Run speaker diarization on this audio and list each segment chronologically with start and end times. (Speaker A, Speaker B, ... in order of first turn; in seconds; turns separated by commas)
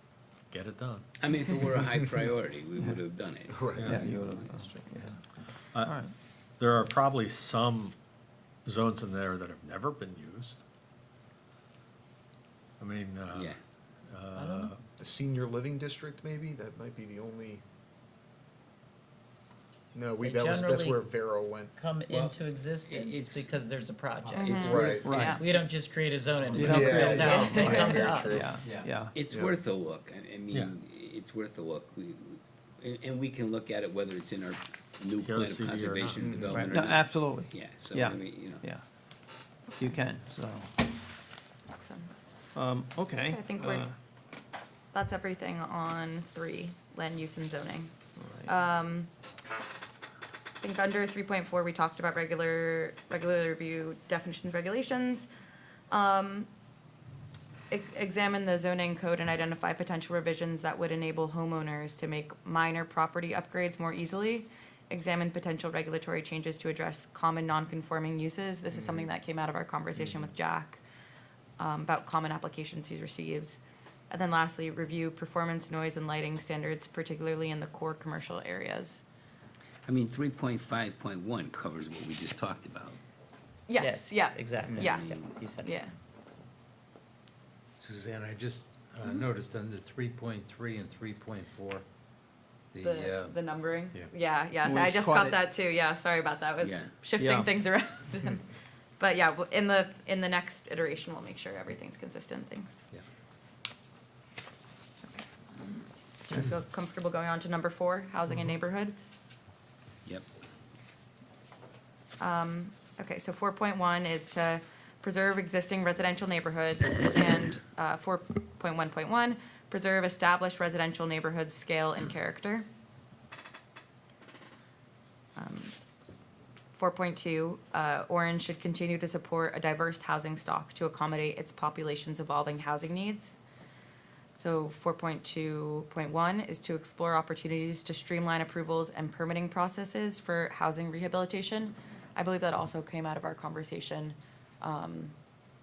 Speaker A: 0.5-1.1, Speaker B: 1.2-4.5, Speaker C: 3.5-4.1, Speaker A: 3.8-4.1, Speaker D: 3.8-5.2, Speaker D: 5.8-6.1, Speaker A: 6.6-8.0, Speaker A: 8.7-10.6, Speaker A: 12.8-13.6, Speaker B: 13.3-13.6, Speaker A: 14.1-14.8, Speaker E: 14.3-14.7, Speaker C: 15.0-17.6, Speaker C: 19.9-21.7, Speaker E: 20.2-21.1, Speaker E: 21.8-28.5, Speaker B: 22.1-22.4, Speaker B: 22.9-23.5, Speaker F: 24.2-24.6, Speaker G: 24.4-25.4, Speaker C: 24.6-25.2, Speaker D: 25.0-25.4, Speaker F: 25.1-25.7, Speaker F: 26.2-29.1, Speaker D: 26.5-27.4, Speaker C: 26.6-28.6, Speaker G: 27.3-28.0, Speaker D: 28.3-29.1, Speaker B: 29.1-38.6, Speaker C: 29.2-29.6, Speaker A: 35.2-36.3, Speaker C: 36.2-36.7, Speaker D: 36.7-38.8, Speaker D: 39.8-40.8, Speaker G: 41.8-42.2, Speaker D: 42.5-43.9, Speaker G: 43.3-43.9, Speaker G: 44.9-47.9, Speaker D: 48.2-48.5, Speaker G: 48.4-49.1, Speaker G: 50.6-55.3, Speaker G: 55.9-56.5, Speaker G: 57.7-70.8, Speaker C: 68.7-69.1, Speaker G: 71.6-79.0, Speaker B: 79.8-83.0, Speaker G: 83.7-85.1, Speaker E: 83.8-85.7, Speaker B: 84.7-85.3, Speaker G: 85.6-85.9, Speaker F: 87.8-91.8, Speaker G: 89.0-89.3, Speaker F: 92.7-93.3, Speaker G: 92.8-98.5, Speaker D: 94.6-95.4, Speaker B: 96.6-96.9, Speaker D: 97.2-97.5, Speaker G: 99.0-102.8, Speaker G: 105.0-109.1, Speaker G: 112.2-122.7, Speaker G: 125.3-125.8, Speaker G: 126.7-133.4, Speaker G: 134.3-145.1